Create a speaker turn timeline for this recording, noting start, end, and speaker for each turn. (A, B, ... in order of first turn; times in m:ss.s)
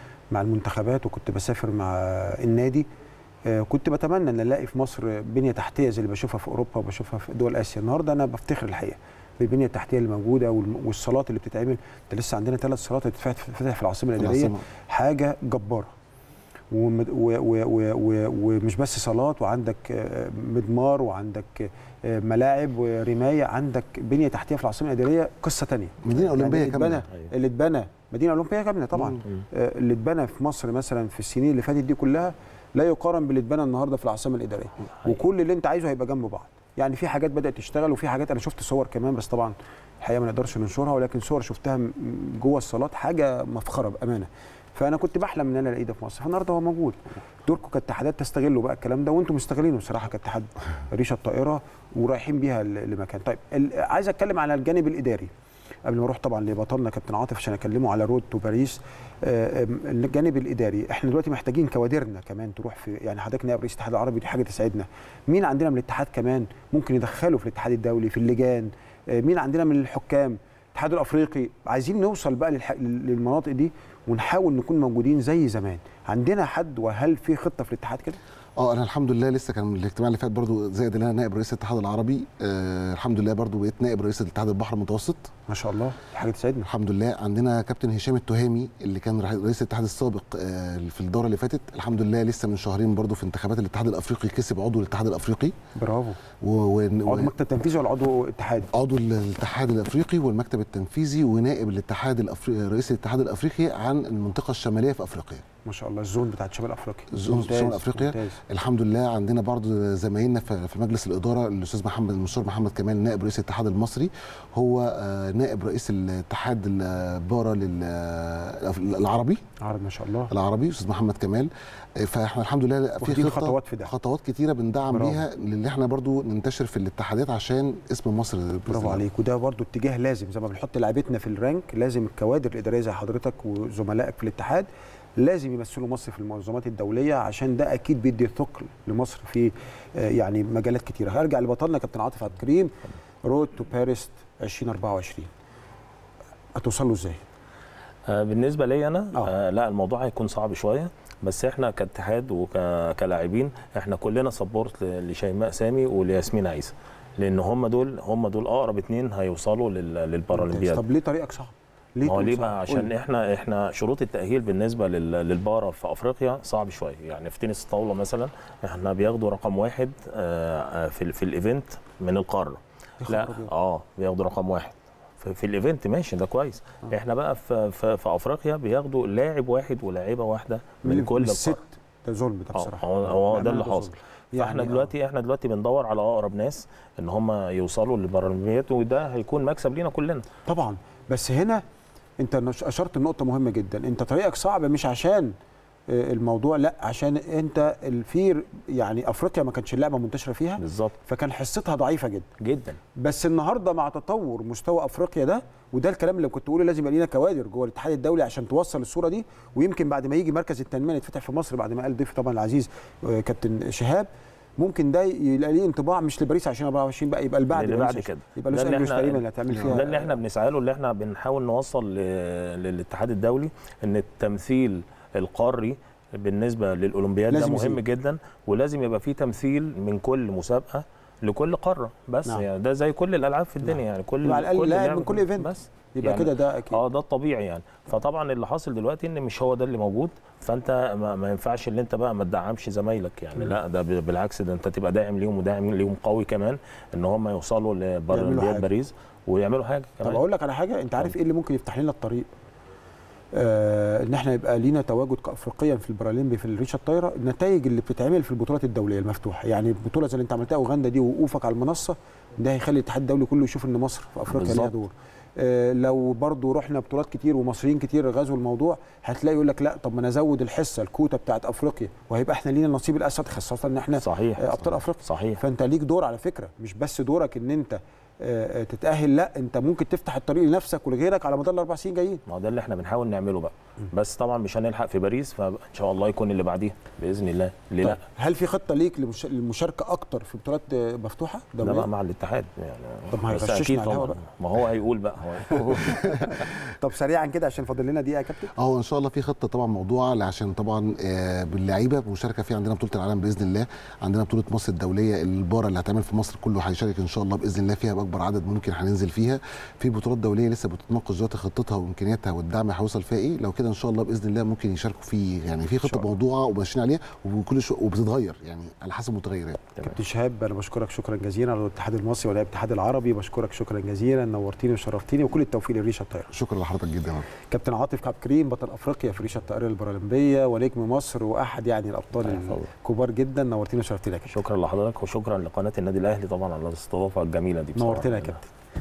0:00.3-0:02.8 A
0:03.5-0:15.9 A
0:14.2-0:14.6 B
0:16.7-0:55.3 A
0:26.0-0:27.0 B
0:27.1-0:27.3 C
0:55.8-1:18.2 A
1:18.6-1:25.3 B
1:25.5-1:26.7 A
1:26.6-1:35.5 B
1:35.8-1:36.2 A
1:36.4-1:37.3 B
1:37.1-1:38.7 A
1:38.7-1:45.4 B
1:45.6-1:48.4 A
1:47.1-1:59.4 B
1:59.6-2:00.3 A
2:00.3-2:09.0 B
2:03.0-2:03.9 A
2:04.9-2:05.2 A
2:08.7-2:22.7 A
2:23.2-2:25.3 A
2:26.6-2:27.2 A
2:28.1-2:40.8 C
2:40.3-2:42.9 A
2:42.0-3:01.6 C
2:53.0-2:53.5 A
3:00.8-3:04.9 A
3:02.5-3:10.2 C
3:10.5-3:11.6 A
3:12.2-3:15.3 A
3:15.9-3:22.3 A
3:20.6-3:21.0 C
3:22.4-3:22.8 C
3:23.0-3:40.2 A
3:37.5-4:10.2 C
3:47.3-3:47.8 A
3:54.2-3:56.8 A
4:08.1-4:08.7 A
4:10.0-4:12.3 A
4:13.3-4:42.2 A
4:24.3-4:24.7 C
4:34.0-4:35.4 C
4:42.3-4:48.0 C
4:47.8-4:51.9 A
4:51.6-4:56.4 C
4:53.1-4:54.2 A
4:55.7-4:58.5 A
4:58.6-5:19.7 B
5:19.8-5:26.3 A
5:26.3-5:27.3 B
5:27.5-5:34.4 A
5:32.2-5:32.7 C
5:34.3-5:38.4 C
5:37.8-5:38.5 A